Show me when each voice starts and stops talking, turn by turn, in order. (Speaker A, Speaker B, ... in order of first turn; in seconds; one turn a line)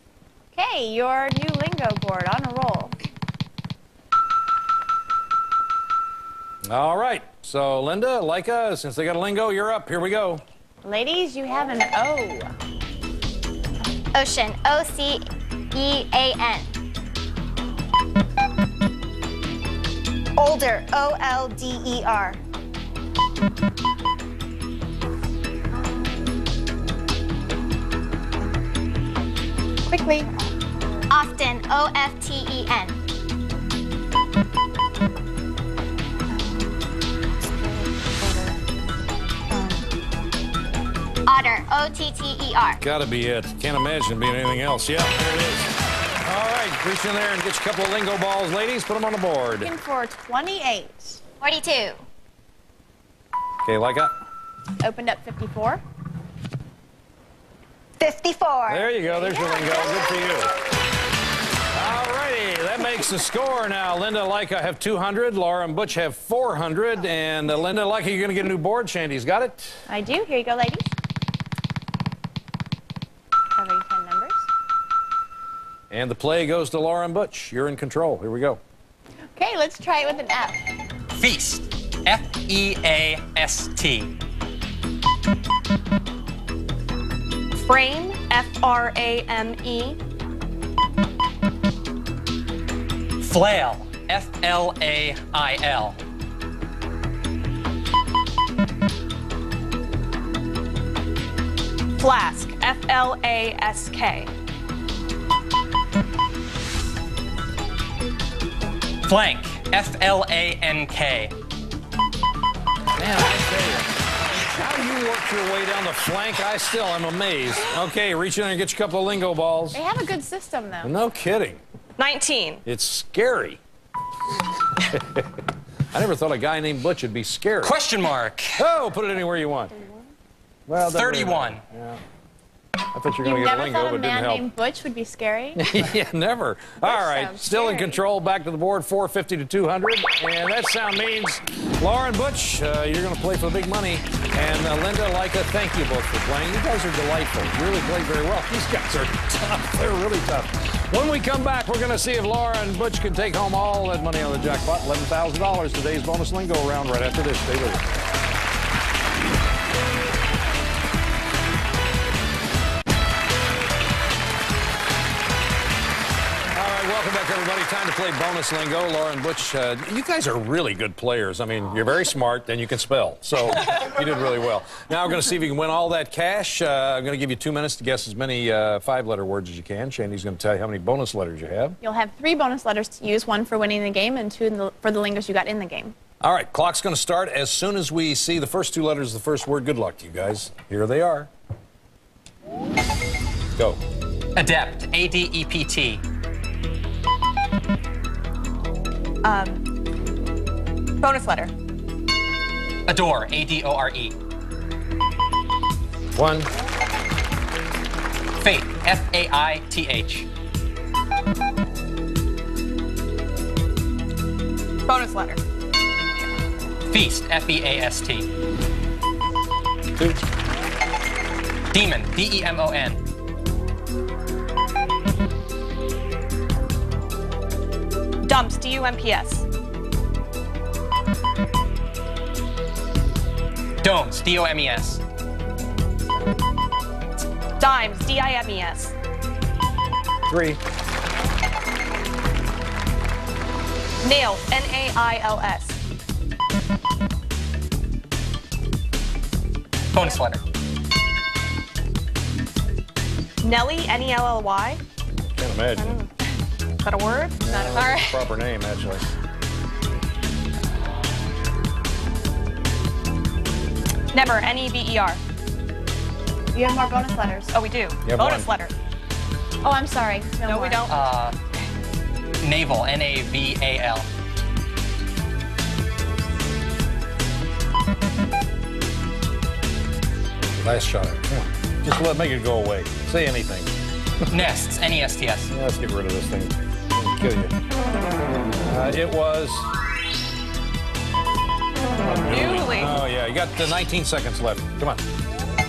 Speaker A: 0.5-3.0
Speaker B: 6.7-10.4
Speaker A: 10.8-12.5
Speaker C: 14.1-16.8
Speaker D: 20.4-22.4
Speaker E: 25.7-26.4
Speaker A: 29.9-30.3
Speaker E: 30.1-31.1
Speaker C: 31.1-33.0
Speaker E: 36.3-36.8
Speaker E: 37.4-38.6
Speaker E: 39.5-39.9
Speaker C: 41.3-42.8
Speaker B: 42.8-45.7
Speaker B: 46.2-49.7
Speaker A: 49.6-51.2
Speaker C: 51.4-52.0
Speaker B: 53.6-54.1
Speaker A: 54.8-55.8
Speaker D: 58.0-58.9
Speaker B: 58.7-60.5
Speaker A: 59.1-60.0
Speaker B: 61.7-69.8
Speaker A: 69.9-70.9
Speaker A: 73.5-74.5
Speaker B: 75.9-78.6
Speaker A: 79.3-80.6
Speaker F: 81.1-84.1
Speaker E: 87.6-90.0
Speaker F: 93.2-96.0
Speaker E: 102.0-104.3
Speaker F: 109.1-111.3
Speaker B: 113.0-119.8
Speaker A: 119.7-120.9
Speaker B: 120.8-121.6
Speaker E: 122.0-122.6
Speaker B: 122.7-123.6
Speaker B: 124.9-125.2
Speaker B: 125.9-127.8
Speaker F: 127.6-128.7
Speaker B: 128.6-129.7
Speaker B: 130.7-132.0
Speaker F: 130.8-131.6
Speaker B: 132.9-134.5
Speaker A: 133.2-135.7
Speaker B: 135.6-157.9
Speaker A: 136.8-138.0
Speaker B: 166.5-181.8
Speaker A: 181.8-185.9
Speaker B: 186.2-191.3
Speaker F: 194.3-196.0
Speaker E: 199.2-199.6
Speaker E: 201.0-201.5
Speaker F: 202.9-204.2
Speaker B: 206.2-206.5
Speaker F: 208.4-210.3
Speaker E: 214.9-215.4
Speaker F: 216.9-218.3
Speaker F: 221.7-223.0
Speaker E: 228.2-229.4
Speaker F: 233.8-235.0
Speaker E: 237.6-238.9
Speaker B: 240.3-240.6
Speaker E: 244.0-245.8
Speaker F: 249.9-250.4
Speaker E: 253.4-254.8
Speaker B: 255.2-256.0
Speaker E: 255.8-256.1
Speaker E: 256.8-258.2
Speaker B: 257.4-259.1
Speaker A: 257.5-257.9
Speaker E: 264.1-265.2
Speaker A: 266.5-267.5
Speaker E: 267.5-268.7
Speaker B: 268.1-268.5
Speaker A: 269.6-270.9
Speaker E: 270.4-271.1
Speaker F: 270.9-271.4
Speaker F: 272.4-274.1
Speaker B: 280.6-283.7
Speaker F: 284.3-285.5
Speaker B: 285.5-287.6
Speaker B: 288.6-289.7
Speaker B: 292.0-295.0
Speaker E: 292.3-293.0